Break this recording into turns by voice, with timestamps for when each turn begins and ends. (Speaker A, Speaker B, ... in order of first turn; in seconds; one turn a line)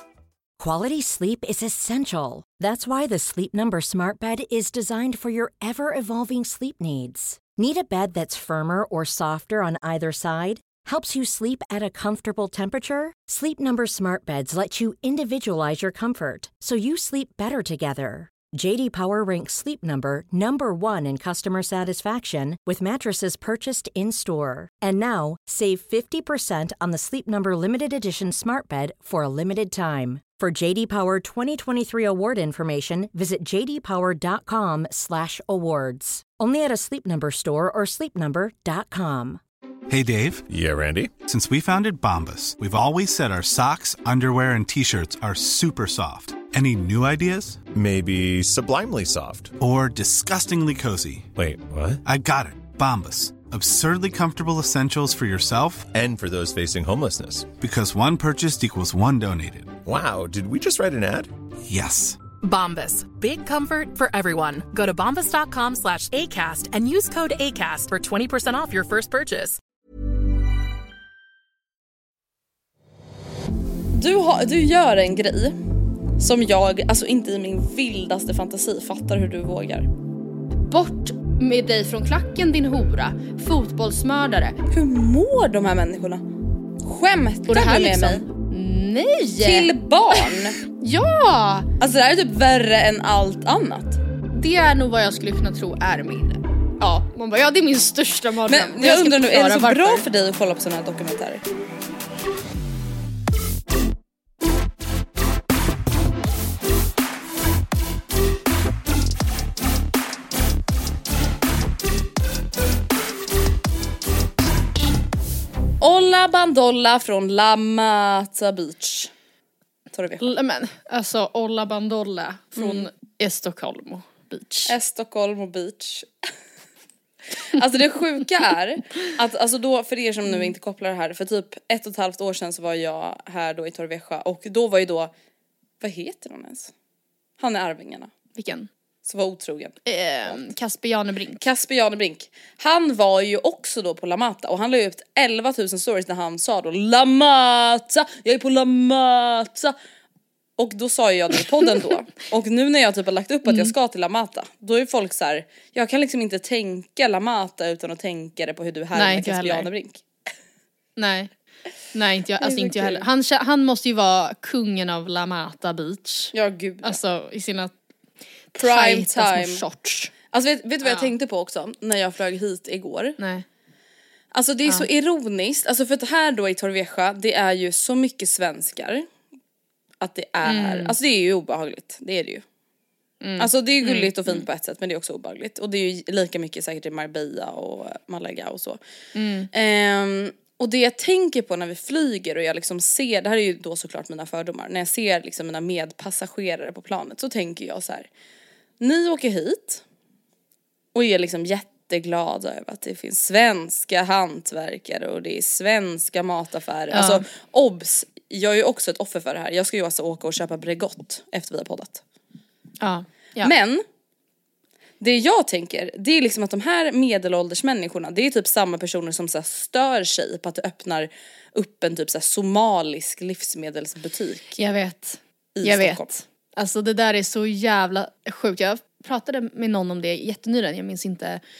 Speaker A: 0.6-39.4
Speaker B: 39.9-40.4
Speaker C: 40.5-41.1
Speaker B: 41.2-47.6
Speaker C: 47.7-49.5
Speaker B: 49.6-51.3
Speaker C: 51.3-52.0
Speaker B: 52.0-55.9
Speaker C: 55.9-57.5
Speaker B: 57.6-59.8
Speaker C: 59.8-61.3
Speaker B: 61.7-62.2
Speaker D: 62.4-69.6
Speaker E: 73.9-75.6
Speaker E: 76.2-79.9
Speaker F: 80.6-84.6
Speaker E: 84.7-86.2
Speaker E: 86.8-88.2
Speaker F: 87.5-91.7
Speaker E: 89.4-90.5
Speaker E: 91.8-94.0
Speaker F: 94.3-100.0
Speaker E: 98.5-101.4
Speaker E: 115.8-119.1
Speaker E: 119.9-120.3
Speaker F: 120.2-124.7
Speaker E: 122.5-122.9
Speaker E: 124.7-126.3
Speaker E: 127.4-135.1
Speaker E: 135.8-136.7
Speaker E: 137.4-138.1
Speaker F: 138.3-138.7
Speaker E: 139.0-140.4
Speaker F: 139.8-141.4
Speaker E: 141.4-149.7
Speaker E: 150.6-160.0
Speaker F: 153.4-153.7
Speaker F: 158.9-159.7
Speaker F: 161.0-161.3
Speaker F: 161.9-167.7
Speaker E: 162.4-163.1
Speaker E: 166.3-167.0
Speaker F: 168.5-170.1
Speaker E: 168.6-169.6
Speaker E: 170.3-173.2
Speaker F: 170.8-171.1
Speaker F: 173.2-173.4
Speaker E: 174.3-179.1
Speaker E: 180.0-182.4
Speaker F: 180.4-180.9
Speaker F: 183.2-184.4
Speaker E: 183.4-188.8
Speaker F: 189.1-189.5
Speaker E: 189.5-198.1
Speaker E: 198.8-199.8
Speaker E: 200.9-212.0
Speaker F: 206.9-207.2
Speaker F: 212.8-213.5
Speaker E: 213.4-213.8
Speaker E: 215.0-224.6
Speaker F: 224.5-231.4
Speaker E: 225.5-226.1